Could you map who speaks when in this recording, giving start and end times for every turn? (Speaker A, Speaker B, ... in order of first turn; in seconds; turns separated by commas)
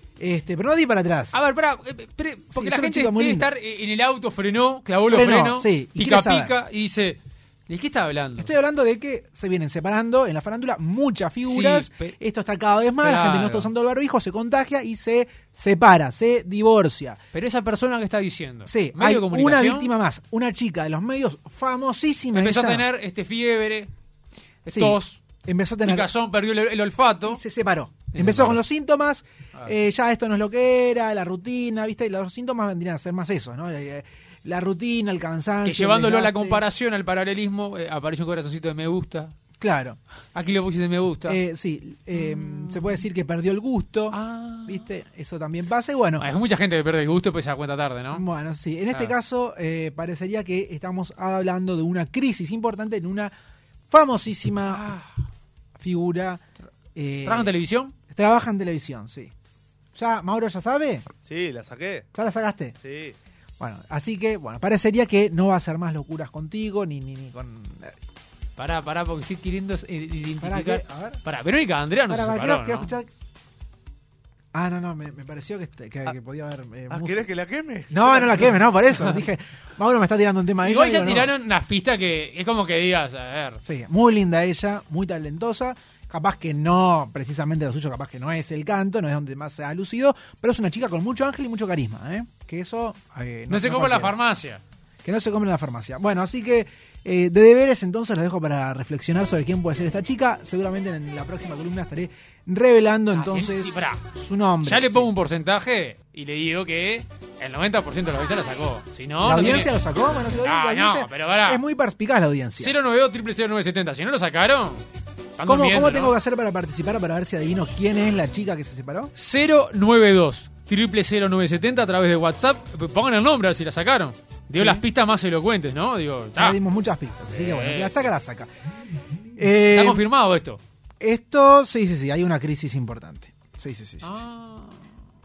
Speaker A: 0.2-1.4, Speaker B: 1.3-8.5, Speaker A: 2.5-3.5, Speaker A: 5.1-6.5, Speaker A: 8.4-17.2, Speaker B: 11.4-12.2, Speaker B: 13.0-13.7, Speaker B: 17.3-19.9, Speaker A: 18.7-22.9, Speaker B: 22.3-23.9, Speaker B: 24.6-25.2, Speaker A: 24.7-26.1, Speaker B: 25.8-27.4, Speaker A: 27.3-36.6, Speaker B: 28.1-28.6, Speaker B: 35.6-39.4, Speaker A: 39.6-40.0, Speaker B: 40.3-41.4, Speaker A: 41.3-46.3, Speaker B: 42.1-43.0, Speaker B: 44.1-44.9, Speaker B: 46.2-48.2, Speaker A: 48.1-53.3, Speaker A: 53.9-54.9, Speaker B: 54.7-55.2, Speaker A: 55.8-56.4, Speaker A: 57.0-57.5, Speaker B: 57.2-58.0, Speaker A: 58.1-59.3, Speaker A: 60.0-61.1, Speaker C: 61.2-62.1, Speaker A: 62.1-62.8, Speaker C: 62.8-63.2, Speaker A: 63.6-68.0, Speaker B: 68.6-72.9, Speaker A: 70.4-71.2, Speaker A: 72.1-73.1, Speaker A: 74.5-77.3, Speaker C: 76.9-78.6, Speaker A: 77.9-81.3, Speaker B: 80.6-83.6, Speaker A: 83.6-94.2, Speaker B: 93.5-94.6, Speaker A: 95.0-105.1, Speaker B: 103.1-104.0, Speaker B: 104.6-109.8, Speaker A: 109.2-112.8, Speaker B: 110.4-111.6, Speaker B: 112.6-114.8, Speaker B: 115.4-116.2, Speaker A: 115.5-119.1, Speaker B: 119.2-126.6, Speaker A: 124.5-124.8, Speaker A: 126.4-128.5, Speaker B: 127.3-128.1, Speaker A: 129.4-130.0, Speaker B: 129.7-130.6, Speaker A: 131.0-134.2, Speaker B: 134.0-134.8